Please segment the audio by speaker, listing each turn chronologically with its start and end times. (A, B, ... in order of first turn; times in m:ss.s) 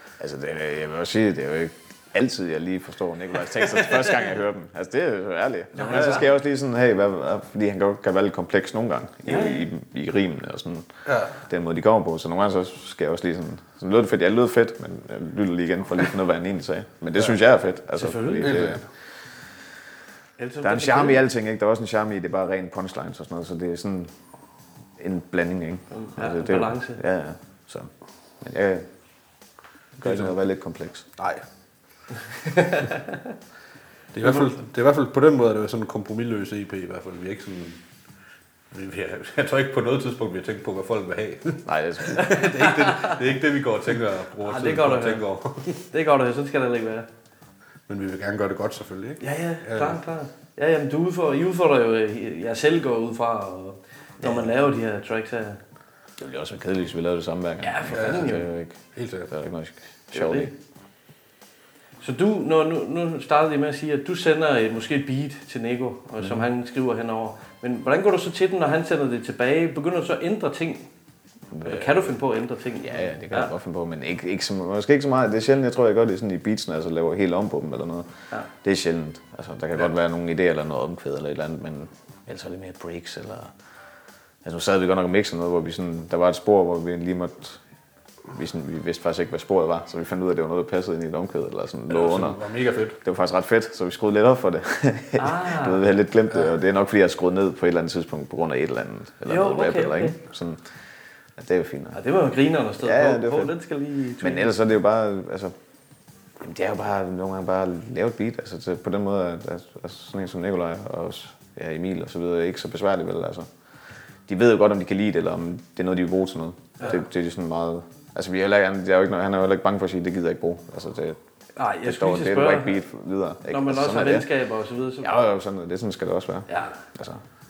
0:00.2-0:10.9 A
0:05.8-0:06.2 B
0:05.9-0:06.2 C
0:09.2-0:09.6 B
0:11.0-0:11.3 C
0:11.4-0:18.8 A
0:18.0-0:18.6 B
0:18.4-0:18.8 C
0:20.4-0:21.2 B
0:20.6-0:24.1 A
0:25.0-0:28.9 A
0:25.9-0:27.0 B
0:30.0-0:31.1 A
0:30.0-0:30.3 C
0:31.2-0:31.4 C
0:34.1-0:37.8 C
0:38.7-0:45.8 C
0:41.6-0:42.4 A
0:42.1-0:43.2 B
0:44.4-0:45.3 B
0:45.9-0:47.1 B
0:47.9-0:50.0 C
0:49.2-0:55.6 B
0:56.2-0:58.8 A
0:57.6-0:58.4 B
0:57.9-0:58.3 C
0:58.9-0:59.3 C
0:59.3-1:00.5 A
1:00.1-1:00.5 B
1:02.0-1:10.9 B
1:06.2-1:06.4 A
1:11.5-1:12.1 A
1:11.6-1:13.5 B
1:12.8-1:23.5 A
1:24.4-1:27.6 A
1:28.3-1:32.4 A
1:31.9-1:33.0 C
1:33.0-1:40.6 A
1:35.2-1:35.8 B
1:39.3-1:40.2 B
1:41.4-1:42.0 A
1:41.9-1:44.5 B
1:42.8-1:43.5 A
1:44.2-1:45.5 A
1:46.4-1:53.5 A
1:54.3-2:01.2 A
2:01.6-2:02.8 B
2:01.8-2:04.3 A
2:03.5-2:05.2 B
2:05.0-2:07.2 A
2:06.5-2:06.8 B